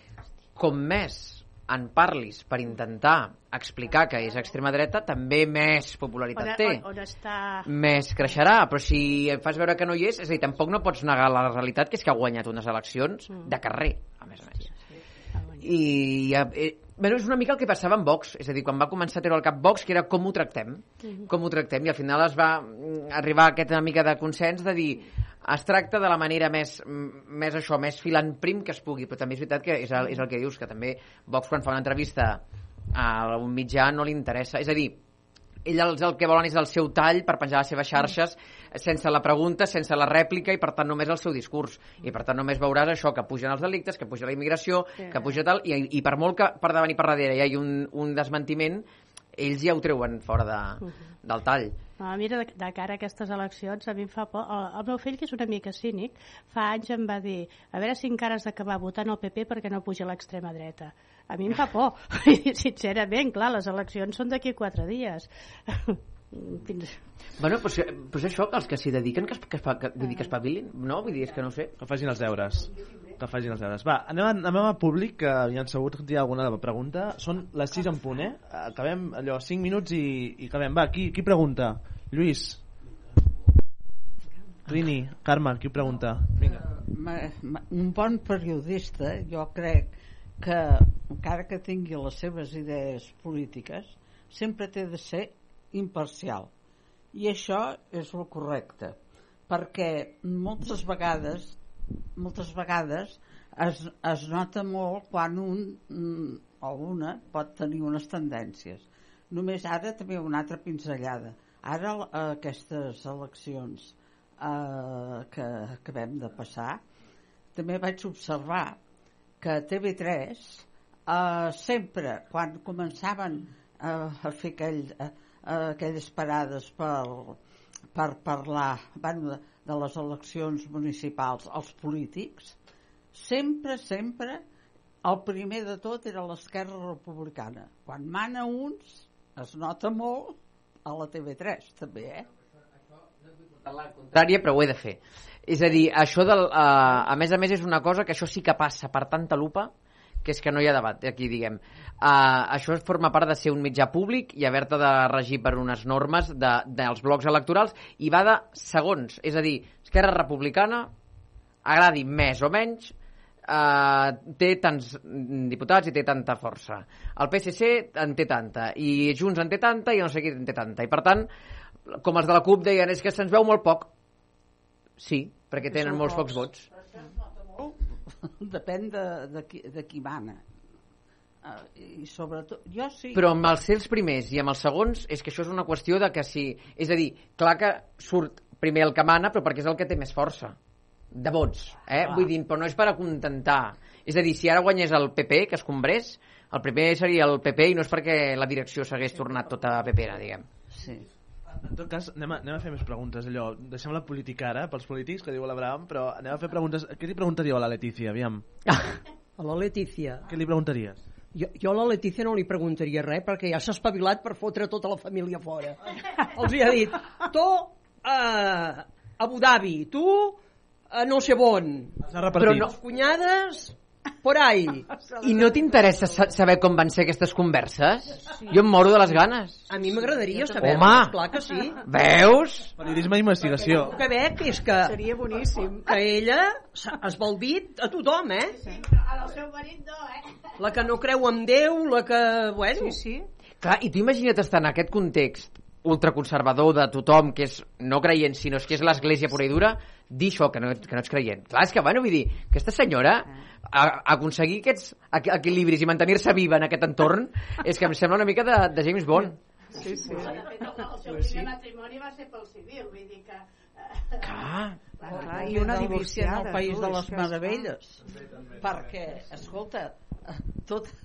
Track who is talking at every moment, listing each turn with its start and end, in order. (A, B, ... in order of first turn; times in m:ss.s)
0:00.6-0:06.8 A
0:06.4-0:07.7 B
0:07.6-0:14.7 A
0:15.6-0:32.4 A
0:32.9-0:35.0 A
0:35.6-0:51.8 A
0:52.0-1:07.0 B
1:07.4-1:11.7 A
1:11.8-1:22.6 C
1:24.7-1:26.6 C
1:26.9-1:36.5 D
1:37.1-1:39.0 D
1:39.5-1:41.6 D
1:42.2-1:56.8 D
1:57.5-1:58.8 D
1:59.4-2:07.4 D
2:07.9-2:12.6 D
2:13.1-2:14.4 D
2:15.0-2:22.2 D
2:23.6-2:29.7 A
2:30.2-2:40.9 A
2:41.6-2:42.9 A
2:43.5-2:51.3 A
2:51.9-2:53.9 A
2:55.0-2:56.6 A
2:55.7-2:57.8 D
2:58.4-3:00.4 D
3:01.4-3:03.3 D
3:03.1-3:10.6 A
3:11.1-3:20.4 A
3:20.8-3:21.0 D
3:21.7-3:28.4 C
3:29.4-3:30.2 E
3:30.3-3:31.0 C
3:31.3-3:40.4 E
3:40.9-3:45.6 E
3:45.2-3:49.6 A
3:49.7-3:51.8 E
3:50.6-3:51.2 A
3:51.8-3:52.7 A
3:52.8-3:53.9 C
3:53.6-3:58.6 E
3:54.8-3:55.7 F
3:58.6-4:00.3 B
4:00.6-4:03.2 E
4:03.6-4:19.4 A
4:19.8-4:20.5 F
4:20.1-4:24.2 B
4:25.0-4:27.7 F
4:25.0-4:28.0 D
4:28.6-4:30.9 D